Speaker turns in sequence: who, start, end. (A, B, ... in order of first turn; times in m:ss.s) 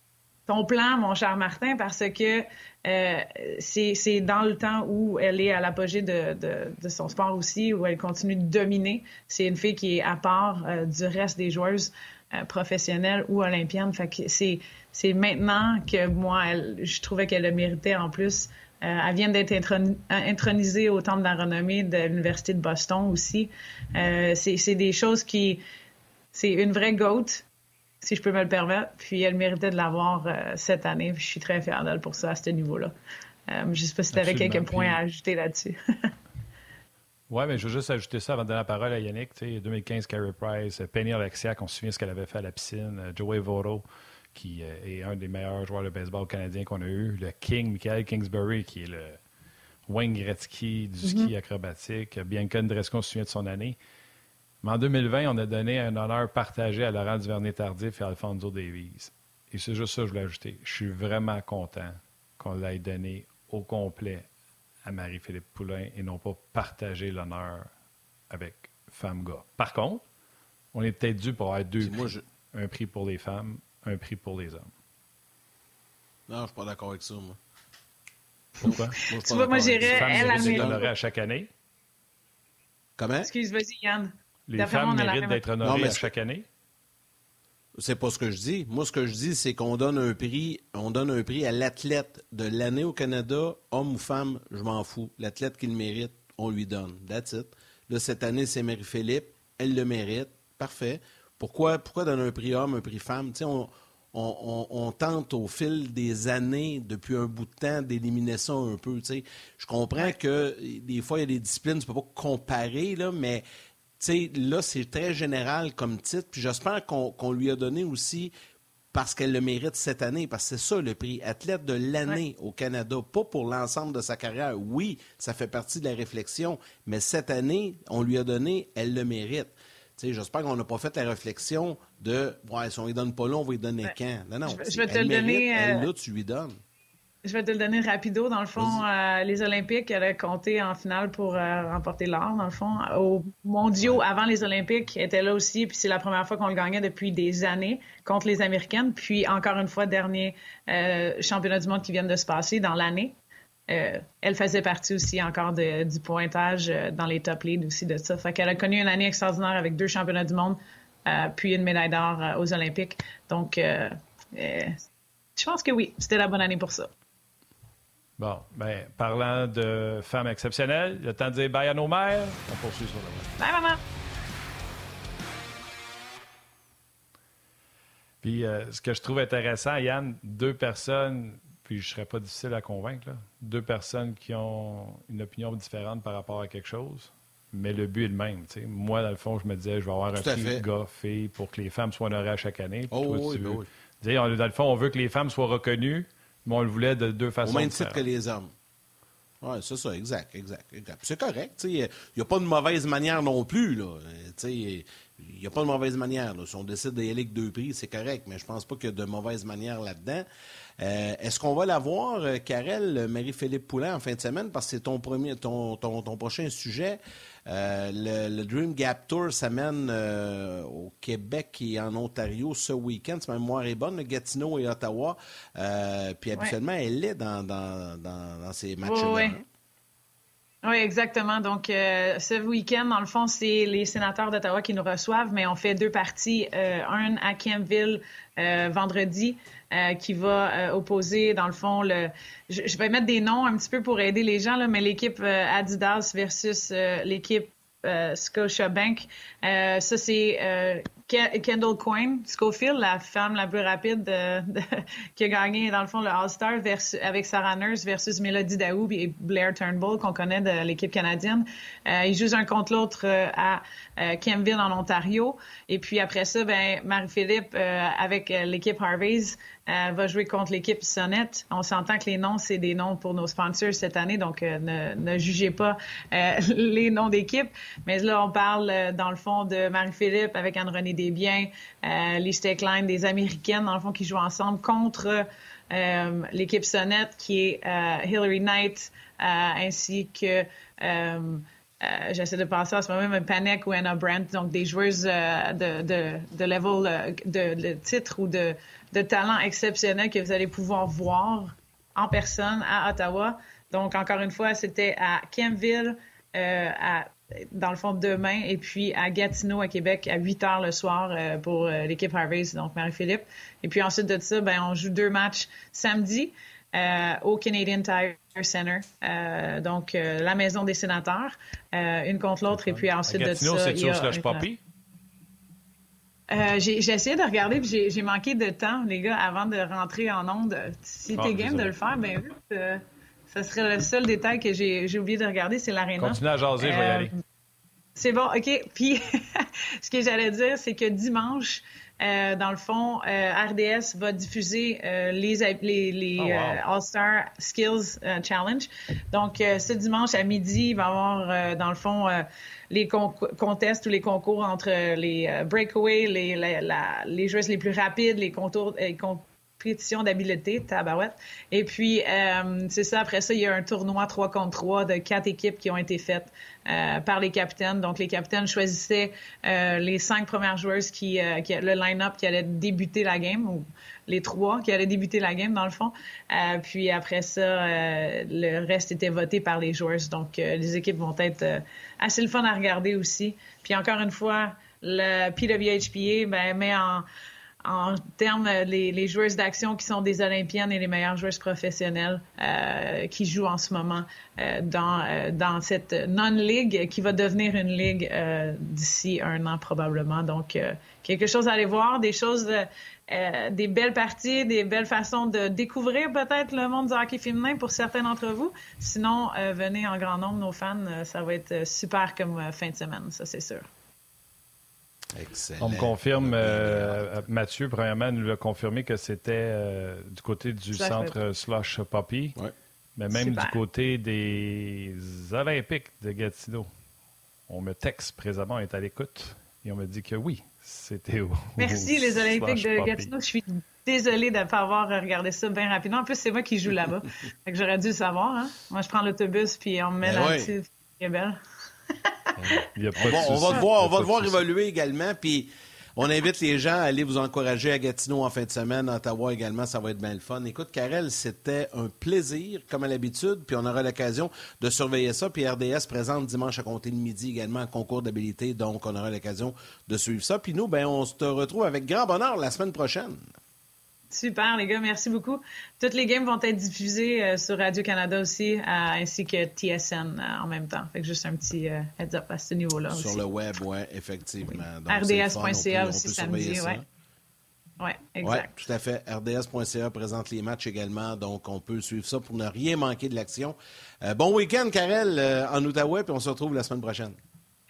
0:00.5-0:25.6 A
0:26.3-0:27.4 A
0:28.0-0:32.9 A
0:33.5-0:36.1 A
0:34.1-0:35.0 B
0:37.3-0:49.2 B
0:49.9-0:53.8 B
0:51.0-0:51.3 A
0:54.6-1:04.3 B
1:04.8-1:07.7 B
1:08.3-1:10.0 B
1:10.7-1:14.7 B
1:11.8-1:12.2 C
1:16.3-1:17.4 C
1:18.6-1:21.5 B
1:18.6-1:20.9 A
1:18.9-1:20.8 C
1:23.0-1:23.3 C
1:23.2-1:25.4 A
1:24.5-1:26.5 B
1:25.6-1:26.1 C
1:27.8-1:53.4 C
1:54.0-1:58.3 C
1:58.9-2:16.6 C
2:14.5-2:15.9 A
2:17.2-2:33.2 A
2:18.6-2:18.8 C
2:33.7-2:44.8 A
2:45.4-2:46.9 A
2:48.2-2:53.4 B
2:53.4-2:53.8 A
2:58.2-3:18.0 B
3:10.2-3:10.6 C
3:12.9-3:13.7 C
3:17.4-3:18.5 C
3:19.4-3:30.2 C
3:30.8-3:49.4 C
3:48.8-3:49.4 A
3:50.6-5:24.4 A
5:22.5-5:24.6 B
5:26.3-5:37.1 A
5:31.2-5:31.7 B
5:36.0-5:37.1 B
5:38.0-6:27.1 A
5:46.2-5:46.6 B
6:27.6-6:53.7 A
6:55.1-6:57.2 C
6:55.6-7:02.4 B
7:00.7-7:01.2 A
7:03.0-7:06.7 B
7:03.1-7:03.6 A
7:07.5-7:13.1 B
7:11.6-7:21.4 A
7:20.0-7:20.5 C
7:21.9-7:22.3 A
7:22.4-7:24.4 B
7:23.0-7:43.2 C
7:44.1-7:53.2 A
7:52.9-7:56.8 C
7:54.9-7:56.8 A
7:57.8-7:58.5 A
7:58.2-8:07.2 C